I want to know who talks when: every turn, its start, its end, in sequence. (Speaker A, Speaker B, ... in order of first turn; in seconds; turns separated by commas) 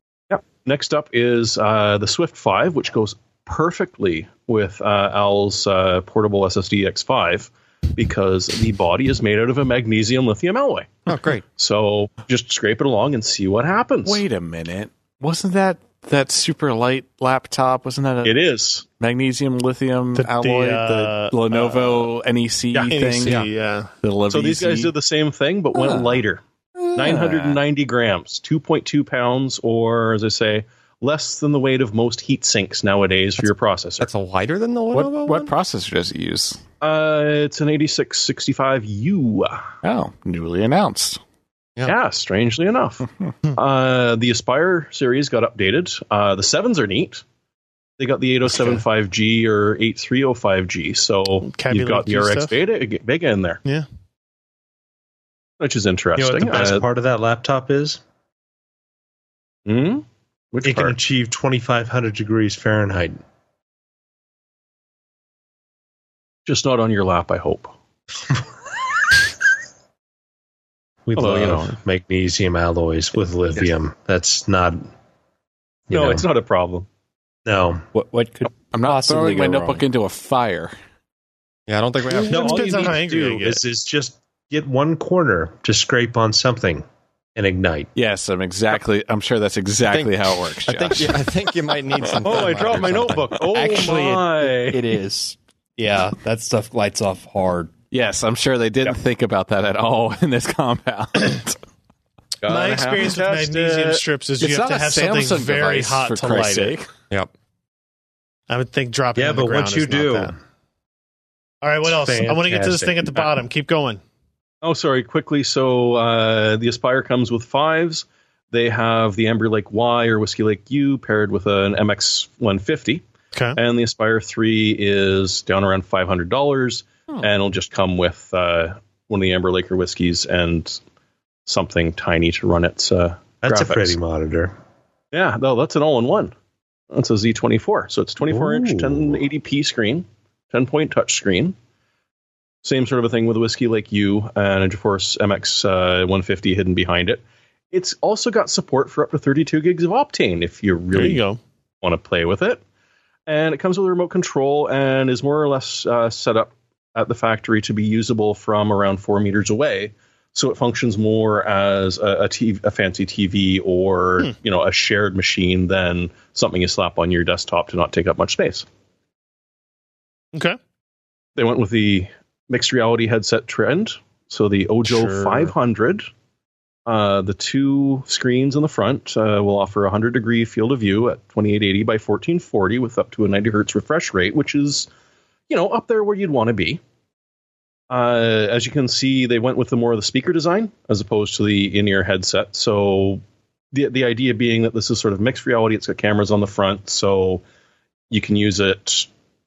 Speaker A: 0.3-10.9, Speaker B: 11.1-11.4, Speaker A: 11.6-14.2, Speaker C: 14.0-18.4, Speaker A: 18.2-18.8, Speaker C: 19.0-23.4, Speaker D: 20.1-22.1, Speaker D: 22.7-23.9, Speaker B: 23.2-23.5, Speaker C: 24.0-24.9, Speaker A: 24.3-26.4, Speaker A: 26.9-34.1, Speaker C: 27.0-27.6, Speaker B: 34.0-35.5, Speaker C: 34.9-36.6, Speaker A: 36.8-39.6, Speaker C: 39.8-41.2, Speaker A: 41.8-47.2, Speaker A: 48.0-53.6, Speaker D: 51.4-52.5, Speaker A: 55.6-56.8, Speaker E: 56.1-58.0, Speaker A: 59.6-61.0, Speaker E: 60.6-63.2, Speaker A: 66.5-67.7, Speaker E: 71.1-74.9, Speaker A: 71.2-71.8, Speaker E: 75.9-76.3, Speaker A: 75.9-76.8, Speaker E: 77.5-77.8, Speaker F: 77.9-79.8, Speaker C: 78.7-80.7, Speaker B: 81.7-82.8, Speaker D: 82.1-83.6, Speaker E: 82.3-86.8, Speaker E: 87.3-87.9, Speaker C: 87.9-91.2, Speaker B: 89.9-93.5, Speaker A: 92.2-94.8, Speaker F: 93.5-97.7, Speaker C: 97.9-101.6, Speaker A: 102.4-104.0, Speaker D: 102.5-106.8, Speaker C: 104.4-106.9, Speaker D: 108.5-110.3, Speaker E: 109.2-110.3, Speaker D: 111.6-114.0, Speaker E: 111.8-113.2, Speaker A: 114.6-123.0, Speaker D: 123.3-123.6, Speaker A: 123.5-130.8, Speaker A: 131.4-134.0, Speaker E: 133.4-134.6, Speaker A: 135.1-136.3, Speaker A: 136.9-141.6, Speaker E: 138.3-139.2, Speaker A: 142.6-151.2, Speaker D: 150.9-151.4, Speaker A: 151.8-152.6, Speaker A: 153.3-168.7, Speaker A: 171.3-176.1, Speaker D: 174.8-175.5, Speaker A: 176.8-184.9, Speaker A: 185.5-186.8, Speaker A: 187.9-193.2, Speaker A: 193.7-197.4, Speaker A: 198.1-199.1